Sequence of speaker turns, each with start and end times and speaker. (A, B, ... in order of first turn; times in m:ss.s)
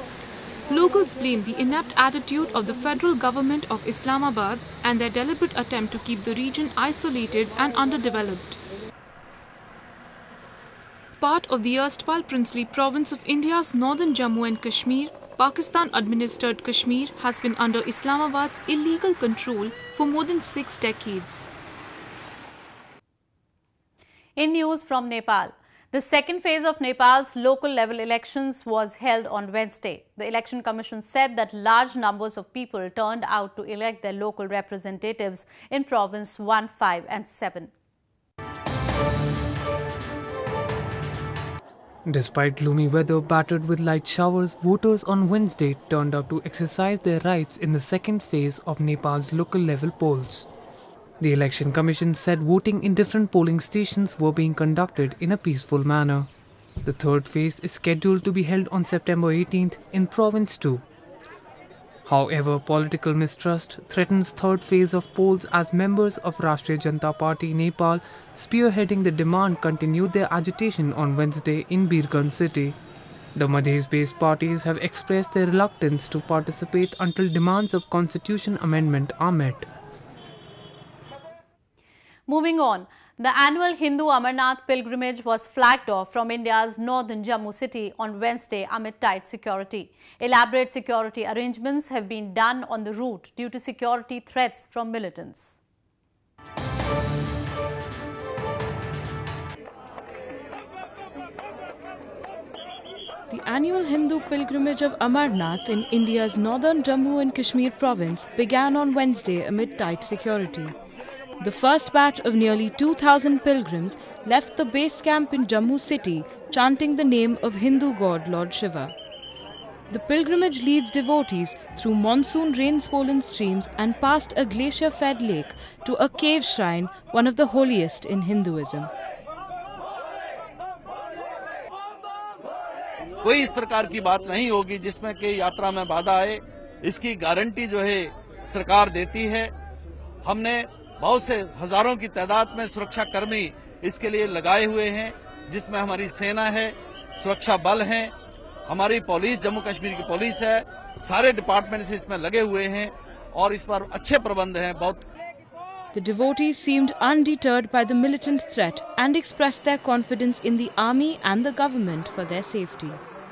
0:00.7-0:08.6 A
0:11.2-0:21.5 A
0:24.4-0:37.7 B
0:42.0-0:50.5 C
0:51.2-0:56.3 C
0:56.8-1:00.8 C
1:02.1-1:12.8 C
1:13.4-1:19.7 C
1:22.3-1:35.6 B
1:43.3-1:50.8 D
1:51.4-1:59.0 D
1:59.9-2:08.9 D
2:13.2-2:19.5 E
2:20.2-2:28.1 E
2:28.7-2:35.0 E
2:35.9-2:43.0 D